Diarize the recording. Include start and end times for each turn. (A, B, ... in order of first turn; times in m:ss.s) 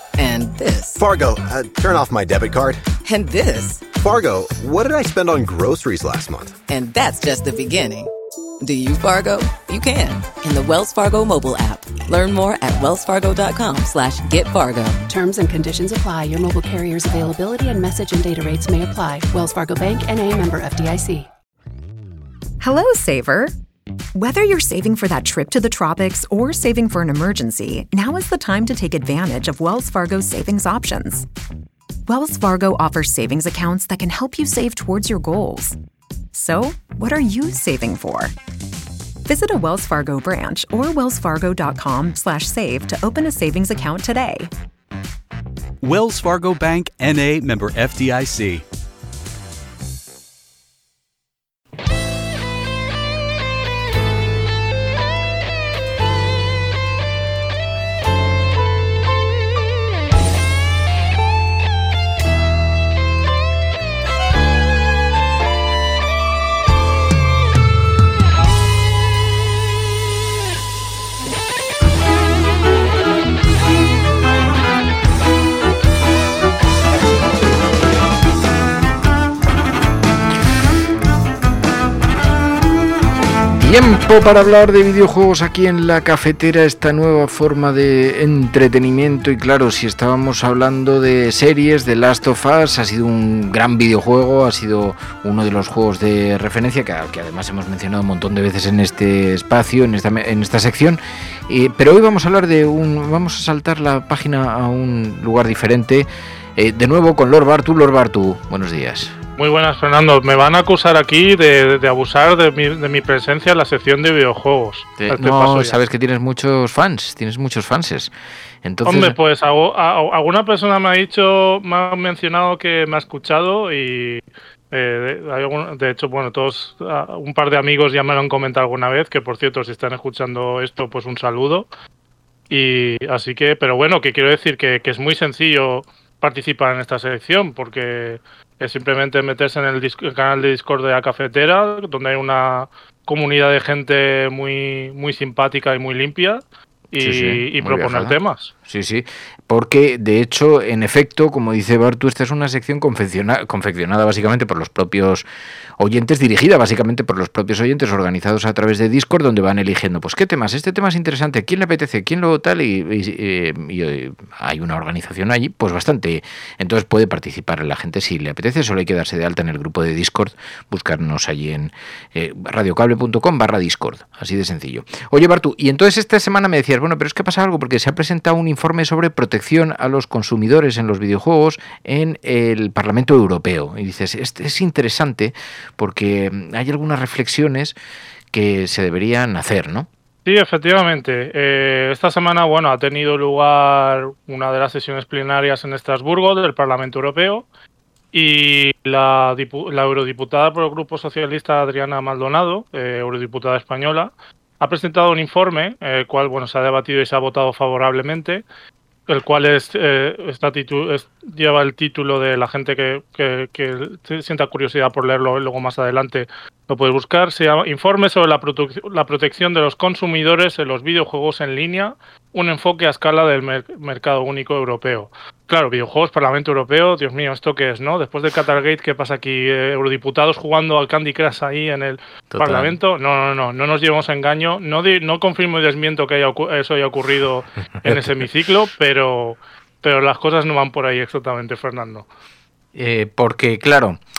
0:00.2-0:01.0 A
0:01.0-0:02.8 B
0:03.0-0:03.8 A
0:03.9-0:06.6 B
0:06.7-0:15.0 A
0:15.1-0:21.3 C
0:22.6-0:23.5 D
0:24.1-0:31.2 D
0:32.1-0:35.8 D
0:36.3-0:38.3 D
0:39.2-0:44.5 D
0:45.8-0:48.6 E
1:23.6-1:49.1 F
1:49.4-1:55.8 G
1:55.0-1:58.1 F
1:58.6-1:59.2 F
1:58.8-2:11.7 G
2:12.5-2:28.5 G
2:27.0-2:35.2 F
2:35.8-3:07.8 F
3:08.3-3:09.9 F
3:10.2-3:17.5 G
3:18.1-3:28.4 G
3:29.1-4:02.1 G
3:52.3-3:52.8 F
4:02.7-4:04.0 F